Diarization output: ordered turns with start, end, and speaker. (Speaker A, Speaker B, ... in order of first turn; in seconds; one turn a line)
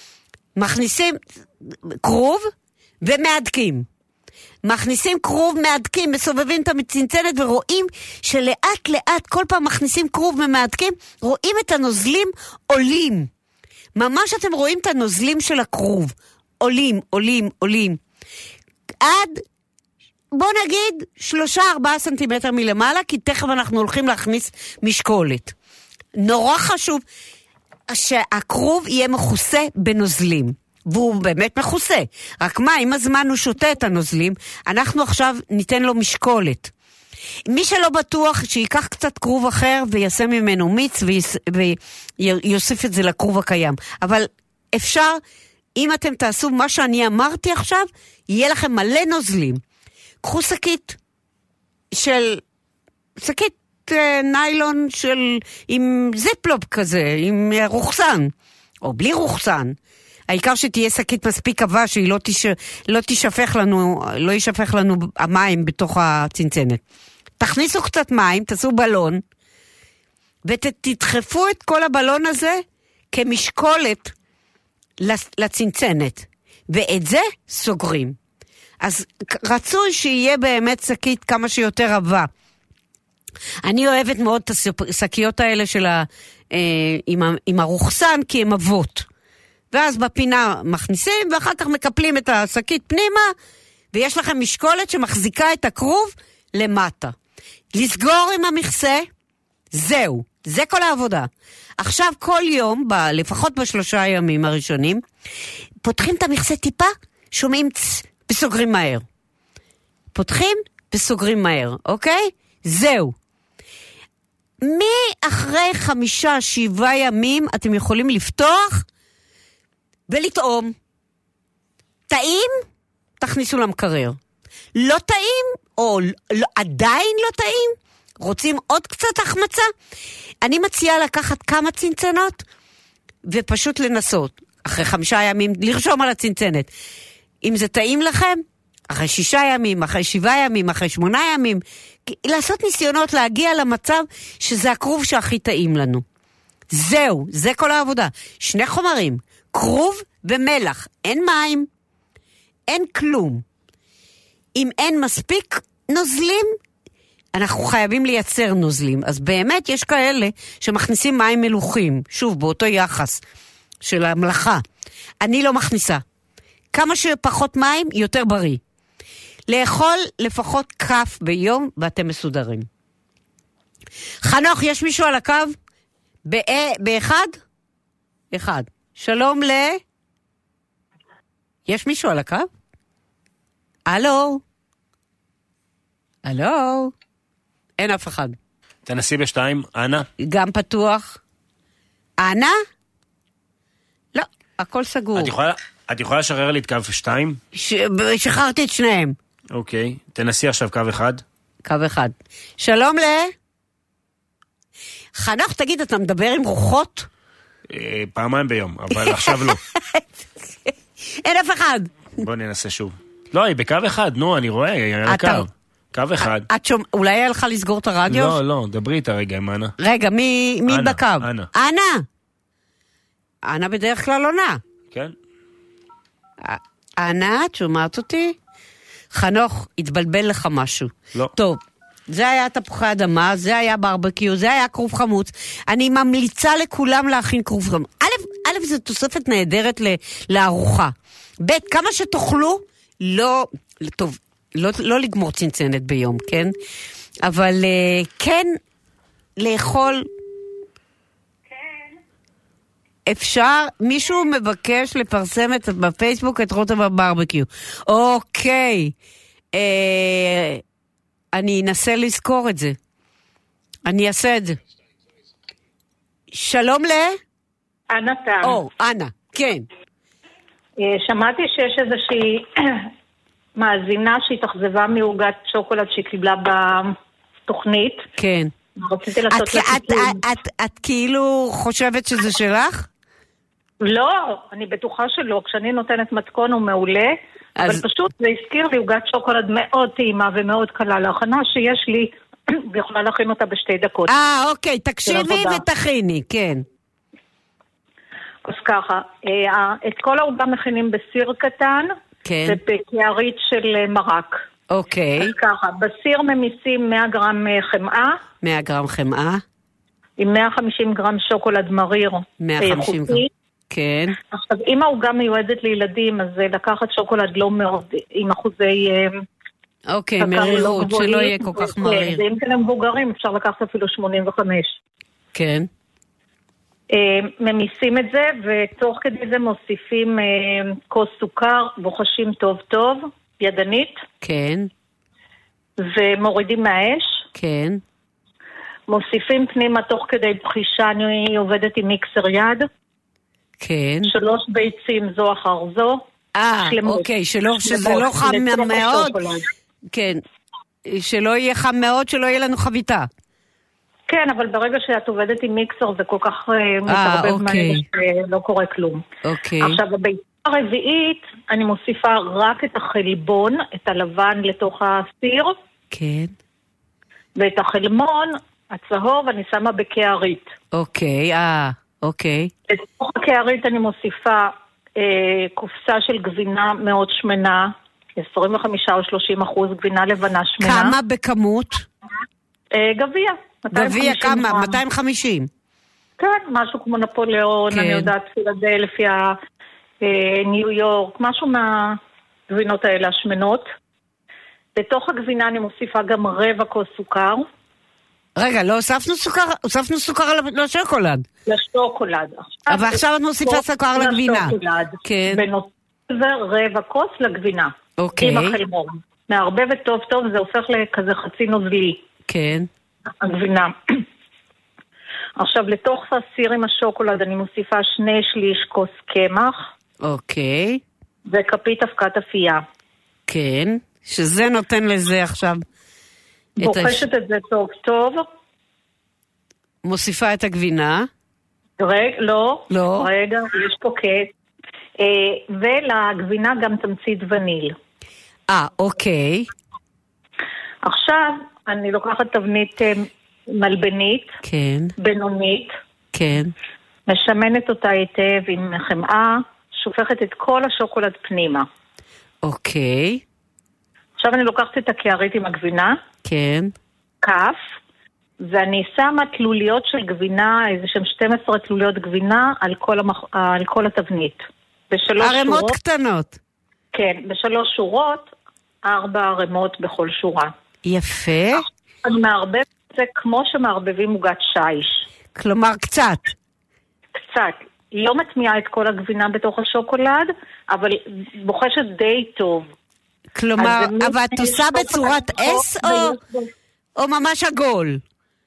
Speaker A: 0.6-2.5
Speaker A: 3.0-3.9
Speaker A: 4.6-13.3
Speaker A: 14.0-18.0
Speaker A: 19.0-19.4
Speaker A: 20.3-25.5
Speaker A: 26.2-27.0
Speaker A: 27.9-36.7
Speaker A: 37.5-45.2
Speaker A: 45.8-49.6
Speaker A: 50.2-51.0
Speaker A: 51.9-52.4
Speaker A: 53.2-59.8
Speaker A: 60.3-66.8
Speaker A: 67.4-69.2
Speaker A: 70.5-74.1
Speaker A: 75.0-78.2
Speaker A: 78.8-82.3
Speaker A: 83.6-89.1
Speaker A: 89.7-93.3
Speaker A: 93.9-97.2
Speaker A: 97.7-99.1
Speaker A: 99.7-105.0
Speaker A: 105.8-109.0
Speaker A: 110.1-113.2
Speaker A: 114.6-118.8
Speaker A: 120.1-120.8
Speaker A: 122.1-122.6
Speaker A: 123.2-124.2
Speaker A: 124.8-129.7
Speaker A: 130.4-132.4
Speaker A: 133.2-136.7
Speaker A: 137.4-146.0
Speaker A: 146.7-151.7
Speaker A: 152.7-153.4
Speaker A: 154.6-156.5
Speaker A: 157.3-163.2
Speaker A: 163.8-164.6
Speaker A: 165.2-166.0
Speaker A: 166.7-168.6
Speaker A: 169.5-172.7
Speaker A: 174.2-175.6
Speaker A: 176.3-177.4
Speaker A: 178.3-179.8
Speaker A: 181.7-182.5
Speaker A: 183.9-184.4
Speaker A: 186.2-186.9
Speaker A: 187.8-188.4
Speaker B: 188.9-190.1
Speaker A: 190.2-191.2
Speaker A: 192.2-192.6
Speaker A: 194.2-195.3
Speaker B: 195.2-197.4
Speaker A: 197.5-199.2
Speaker B: 199.5-201.2
Speaker A: 201.7-203.3
Speaker A: 205.2-207.1
Speaker B: 207.7-209.6
Speaker A: 208.9-211.9
Speaker B: 212.2-216.5
Speaker A: 215.1-215.4
Speaker A: 216.2-218.4
Speaker B: 218.1-219.8
Speaker A: 219.8-222.1
Speaker B: 220.7-221.5
Speaker A: 223.4-224.6
Speaker A: 226.4-228.4
Speaker A: 229.1-246.5
Speaker A: 247.2-248.6
Speaker A: 249.4-250.1
Speaker A: 253.1-258.9
Speaker A: 259.5-260.6
Speaker A: 261.3-262.8
Speaker A: 263.9-264.6
Speaker A: 266.3-267.2
Speaker C: 267.9-268.6
Speaker A: 268.4-269.6
Speaker C: 270.8-272.9
Speaker C: 273.6-277.0
Speaker C: 277.5-278.1
Speaker A: 278.2-278.5
Speaker C: 278.8-280.2
Speaker A: 279.3-282.9
Speaker C: 283.8-294.1
Speaker A: 287.6-287.8
Speaker A: 294.1-296.6
Speaker C: 295.1-295.6
Speaker C: 298.4-301.9
Speaker A: 302.2-302.6
Speaker C: 302.5-304.4
Speaker A: 304.7-305.3
Speaker C: 305.2-308.2
Speaker A: 308.4-309.4
Speaker C: 310.2-313.3
Speaker A: 312.4-314.2
Speaker C: 314.3-319.2
Speaker A: 319.9-322.2
Speaker C: 320.2-324.8
Speaker A: 325.4-325.7
Speaker C: 326.9-334.0
Speaker A: 334.2-334.7
Speaker C: 335.8-337.2
Speaker A: 337.4-337.8
Speaker C: 338.9-342.7
Speaker A: 343.6-344.1
Speaker C: 344.1-346.0
Speaker A: 346.4-349.2
Speaker C: 346.6-347.1
Speaker C: 347.6-349.5
Speaker A: 349.9-350.2
Speaker A: 350.9-353.1
Speaker C: 354.1-359.0
Speaker A: 356.9-357.8
Speaker A: 359.2-359.8
Speaker C: 359.6-365.6
Speaker A: 365.9-366.3
Speaker C: 367.4-370.5
Speaker A: 370.7-372.5
Speaker C: 372.7-381.0
Speaker A: 380.6-381.9
Speaker C: 382.7-384.8
Speaker A: 383.7-385.5
Speaker C: 386.2-389.4
Speaker A: 387.7-388.1
Speaker C: 390.0-392.0
Speaker C: 392.5-393.7
Speaker C: 394.8-397.5
Speaker A: 398.4-401.2
Speaker C: 401.5-412.0
Speaker A: 402.7-405.4
Speaker A: 408.0-408.6
Speaker A: 412.3-412.7
Speaker C: 413.2-413.8
Speaker C: 415.4-419.7
Speaker A: 420.0-420.8
Speaker C: 421.3-422.6
Speaker A: 423.3-425.6
Speaker A: 426.6-427.1
Speaker C: 426.6-428.3
Speaker A: 429.8-431.1
Speaker C: 431.8-434.3
Speaker A: 432.7-433.1
Speaker C: 435.0-437.8
Speaker A: 438.5-439.5
Speaker C: 440.8-444.4
Speaker A: 444.4-444.9
Speaker C: 445.0-445.7
Speaker A: 446.1-446.5
Speaker C: 447.1-451.7
Speaker A: 452.4-453.2
Speaker C: 454.2-456.0
Speaker A: 456.2-456.7
Speaker C: 457.2-457.6
Speaker C: 458.4-465.8
Speaker A: 465.2-466.4
Speaker C: 466.9-468.3
Speaker C: 468.8-470.5
Speaker A: 470.9-471.6
Speaker C: 472.0-475.0
Speaker A: 475.4-476.3
Speaker C: 477.2-482.7
Speaker A: 483.4-486.2
Speaker C: 483.6-486.5
Speaker A: 487.0-488.0